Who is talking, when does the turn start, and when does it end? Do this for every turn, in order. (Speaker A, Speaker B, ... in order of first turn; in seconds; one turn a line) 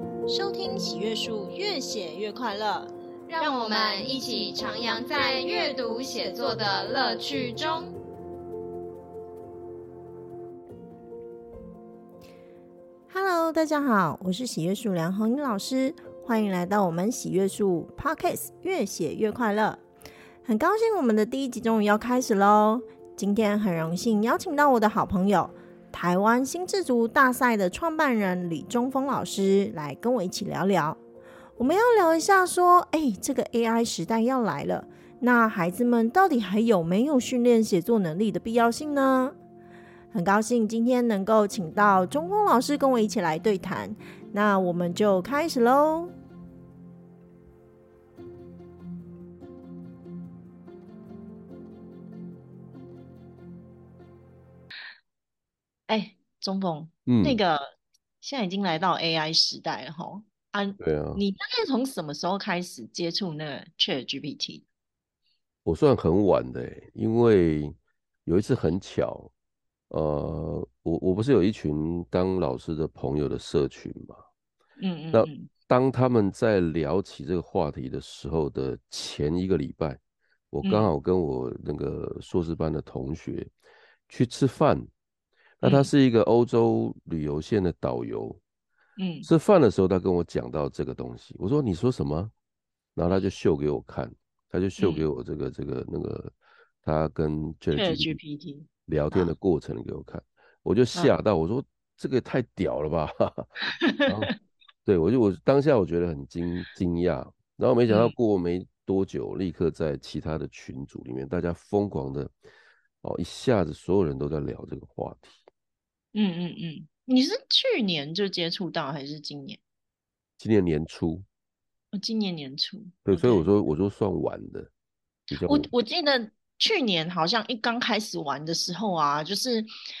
Speaker A: 0.3-5.7
Speaker B: 3.3-7.9
Speaker A: 13.1-19.8
Speaker A: 20.4-31.0
Speaker A: 31.6-39.3
Speaker A: 40.1-46.1
Speaker A: 55.9-57.6
Speaker C: 57.1-57.4
Speaker A: 58.2-64.6
Speaker C: 60.8-61.2
Speaker C: 65.6-67.7
Speaker C: 68.2-69.3
Speaker C: 69.9-74.2
Speaker A: 74.8-75.5
Speaker C: 75.1-80.0
Speaker C: 80.5-83.5
Speaker A: 80.6-80.9
Speaker C: 84.1-84.9
Speaker C: 85.6-88.4
Speaker A: 85.6-85.9
Speaker A: 89.0-89.3
Speaker C: 89.2-92.3
Speaker C: 93.0-98.2
Speaker A: 94.8-95.1
Speaker A: 97.7-99.3
Speaker C: 98.9-103.5
Speaker A: 103.8-104.1
Speaker C: 104.1-104.3
Speaker C: 104.8-112.3
Speaker A: 107.9-108.1
Speaker C: 113.0-115.3
Speaker A: 116.1-119.6
Speaker C: 120.4-121.2
Speaker A: 121.9-123.5
Speaker C: 123.0-124.7
Speaker C: 125.3-125.7
Speaker A: 125.5-129.7